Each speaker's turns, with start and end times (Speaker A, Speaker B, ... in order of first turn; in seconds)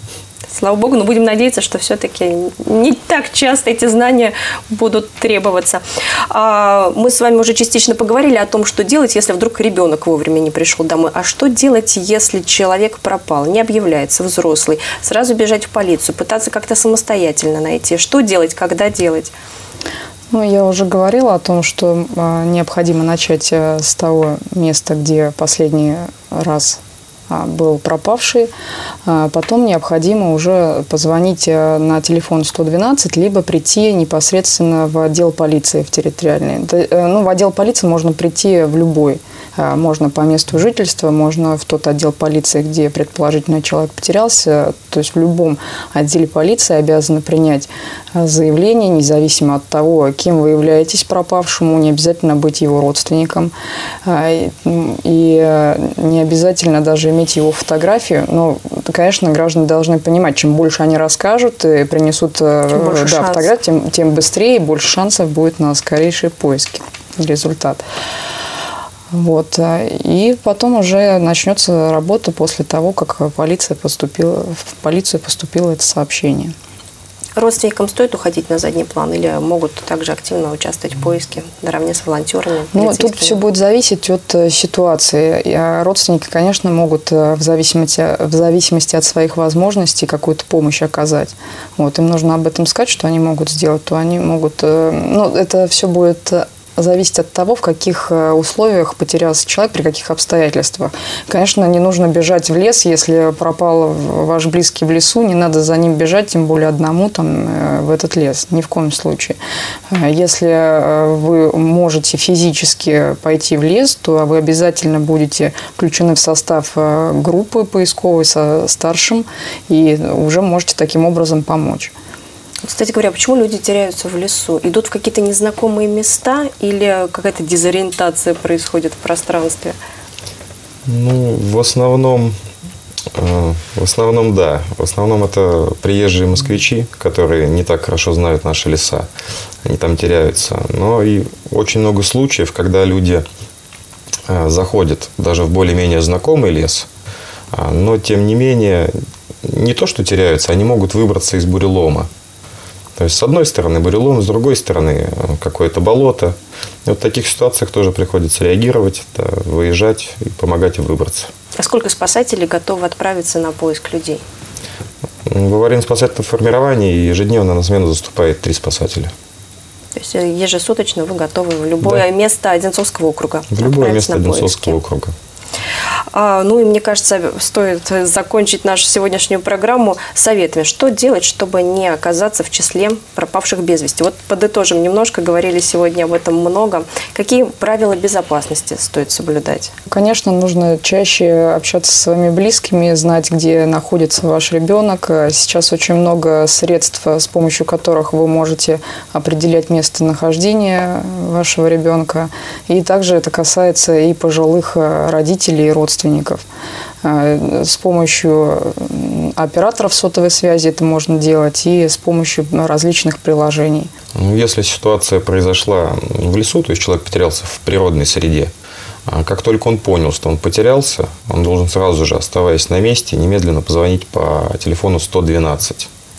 Speaker A: 0.5-19.3, 62.7-63.5, 77.4-83.4, 122.6-129.8, 161.6-164.2, 169.9-174.8, 176.1-189.7
Speaker B: 20.3-28.5, 29.1-53.5, 54.0-67.8, 69.1-76.5, 82.7-109.4, 109.9-121.9, 189.9-206.4, 207.0-213.9
Speaker C: 130.9-132.4, 133.2-139.1, 139.7-143.2, 144.3-146.9, 147.5-148.9, 149.4-152.1, 153.0-161.3, 165.3-169.1, 173.5-175.2, 214.2-218.5, 219.1-225.9